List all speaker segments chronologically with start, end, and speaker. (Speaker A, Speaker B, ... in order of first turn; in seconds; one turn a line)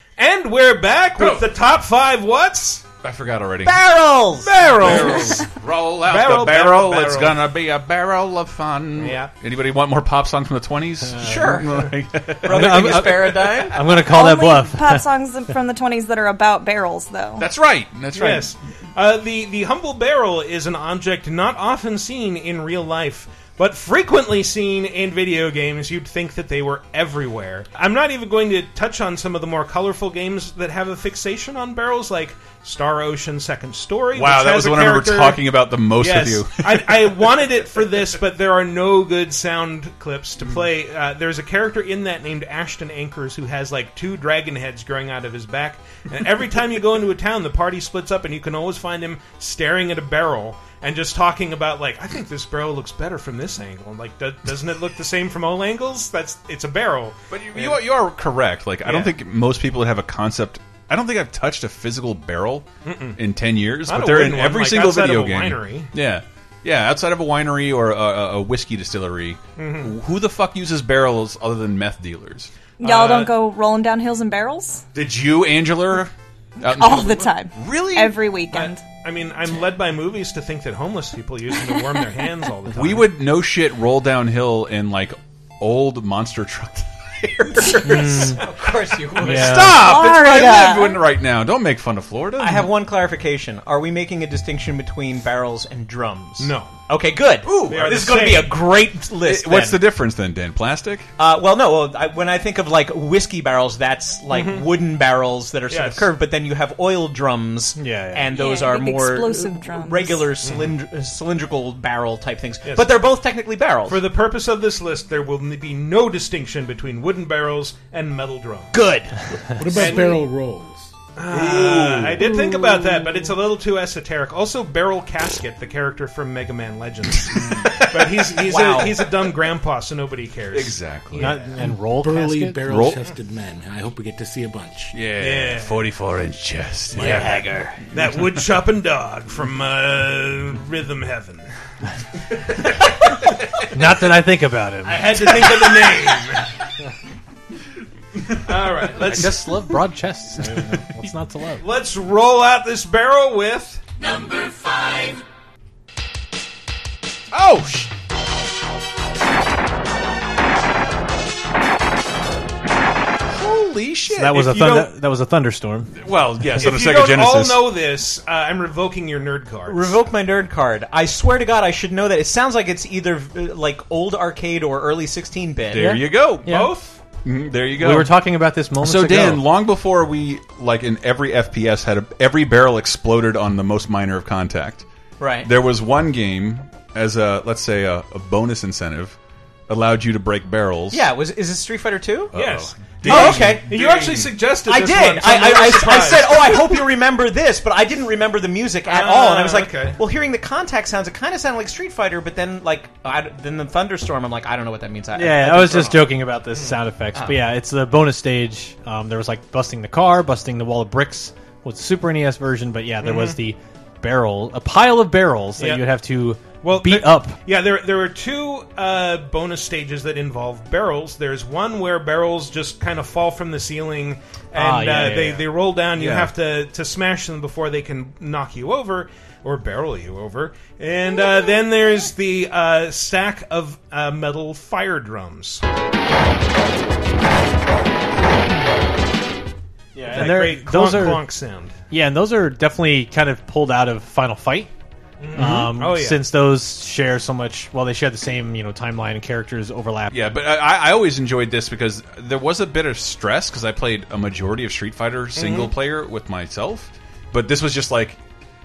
Speaker A: 0.2-2.8
Speaker B: 1.2-1.5
Speaker B: 3.0-3.8
Speaker C: 3.6-4.5
Speaker B: 4.5-13.5
Speaker A: 4.5-5.4
Speaker A: 6.0-7.4
Speaker A: 9.0-9.3
Speaker D: 11.2-11.6
Speaker C: 11.2-11.7
Speaker C: 12.4-13.8
Speaker D: 12.5-15.0
Speaker E: 14.0-17.4
Speaker B: 17.4-18.5
Speaker A: 18.1-35.4
Speaker B: 34.1-37.5
Speaker A: 36.0-57.8
Speaker B: 57.3-72.5
Speaker A: 58.8-59.1
Speaker A: 62.8-63.2
Speaker A: 63.9-65.9
Speaker A: 69.6-69.9
Speaker E: 72.8-74.8
Speaker A: 72.8-73.3
Speaker B: 74.9-78.7
Speaker E: 76.7-78.8
Speaker A: 79.0-83.1
Speaker B: 82.7-88.3
Speaker C: 87.8-89.8
Speaker D: 87.8-88.4
Speaker B: 89.2-92.7
Speaker D: 89.2-89.8
Speaker E: 89.7-91.0
Speaker C: 92.4-99.8
Speaker A: 96.4-96.7
Speaker B: 97.5-97.9
Speaker A: 97.7-98.5
Speaker B: 99.2-101.1
Speaker C: 101.2-114.0
Speaker A: 104.3-104.7
Speaker A: 105.7-106.1
Speaker D: 107.8-108.3
Speaker E: 108.3-110.3
Speaker A: 110.4-110.7
Speaker A: 112.6-113.0
Speaker A: 113.8-118.7
Speaker C: 118.7-119.1
Speaker F: 119.5-120.9
Speaker A: 119.7-120.2
Speaker A: 121.2-131.4
Speaker B: 121.3-122.8
Speaker B: 127.3-127.9
Speaker C: 128.4-129.1
Speaker B: 130.5-131.3
Speaker D: 131.1-132.7
Speaker F: 131.6-134.9
Speaker B: 132.6-133.0
Speaker B: 134.9-137.4
Speaker A: 135.2-135.8
Speaker A: 137.0-137.4
Speaker D: 137.0-137.8
Speaker A: 137.9-141.5
Speaker D: 143.7-145.2
Speaker A: 144.8-146.5
Speaker A: 148.4-149.6
Speaker D: 149.0-151.6
Speaker A: 151.6-153.8
Speaker B: 157.3-157.9
Speaker B: 163.3-164.8
Speaker D: 164.1-165.9
Speaker B: 165.9-167.6
Speaker A: 166.6-170.0
Speaker C: 169.7-176.0
Speaker B: 175.7-176.5
Speaker D: 175.7-176.7
Speaker A: 176.4-177.0
Speaker B: 177.2-178.1
Speaker D: 177.8-179.4
Speaker B: 178.8-184.8
Speaker C: 185.2-185.5
Speaker B: 185.4-189.2
Speaker B: 189.7-191.1
Speaker C: 190.9-192.3
Speaker B: 192.3-194.3
Speaker A: 192.3-196.8
Speaker C: 193.0-193.7
Speaker C: 194.6-206.2
Speaker A: 198.8-200.0
Speaker D: 205.1-217.4
Speaker A: 206.5-206.8
Speaker C: 207.1-207.4
Speaker A: 213.0-213.4
Speaker A: 215.6-215.9
Speaker A: 216.6-235.6
Speaker C: 224.6-225.4
Speaker B: 225.9-226.3
Speaker D: 239.9-241.2
Speaker A: 240.0-241.7
Speaker D: 241.9-244.7
Speaker A: 245.2-246.3
Speaker D: 245.3-250.2
Speaker B: 245.4-245.7
Speaker B: 250.1-258.2
Speaker A: 255.3-255.7